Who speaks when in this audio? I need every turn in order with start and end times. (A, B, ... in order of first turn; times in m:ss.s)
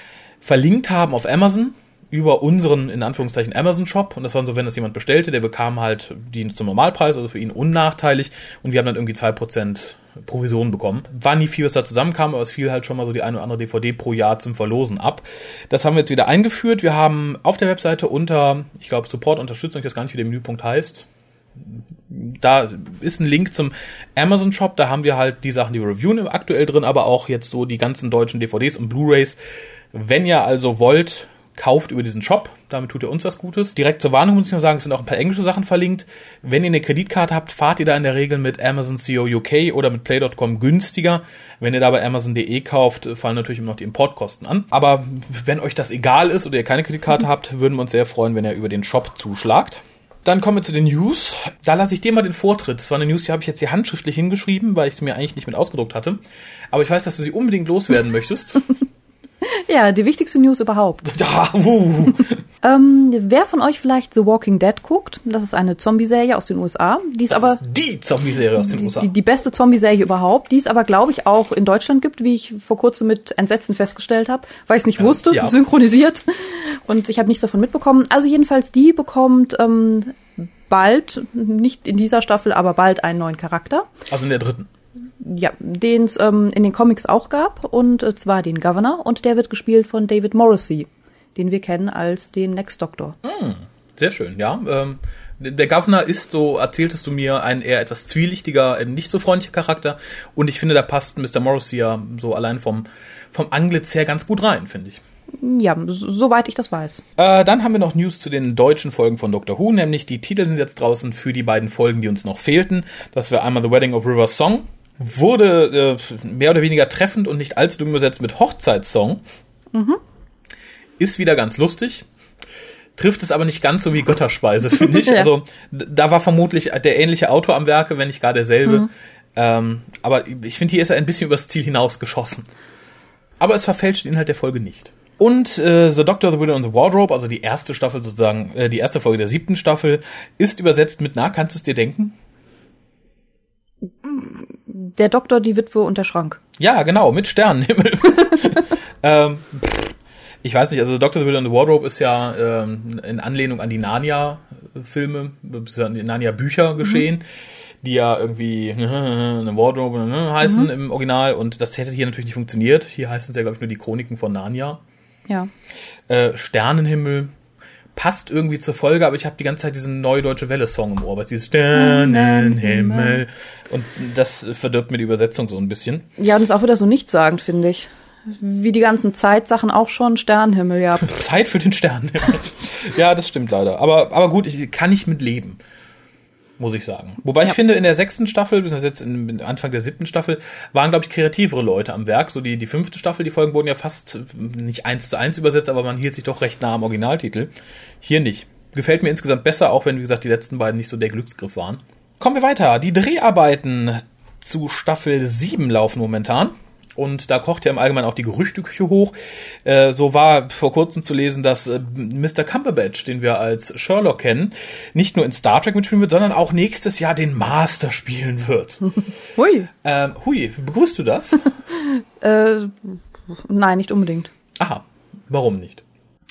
0:00.4-0:21.1 A
0:21.6-0:29.4 A
0:29.9-0:56.2 A
0:56.7-0:58.6 A
0:59.5-1:01.1 B
1:01.0-1:02.4 A
1:02.6-1:07.6 B
1:07.3-1:09.1 A
1:08.6-1:23.9 B
1:15.0-1:15.6 A
1:24.1-1:24.7 A
1:25.2-1:33.2 B
1:33.2-1:45.0 A
1:45.4-1:47.0 B
1:47.2-1:59.2 A
1:59.7-2:00.0 B
2:01.0-2:02.1 A
2:03.0-2:12.5 A
2:04.9-2:05.3 B
2:13.4-2:22.2 A
2:24.0-2:26.4 B
2:26.6-2:37.2 A
2:37.8-2:44.8 A
2:46.1-2:47.3 A
2:48.0-2:56.1 A
2:51.7-2:53.2 B
2:56.2-3:01.1 B
3:01.0-3:05.6 A
3:06.6-3:38.9 A
3:39.4-3:39.7 B
3:39.8-3:41.5 A
3:42.0-3:44.3 B
3:44.6-3:45.8 A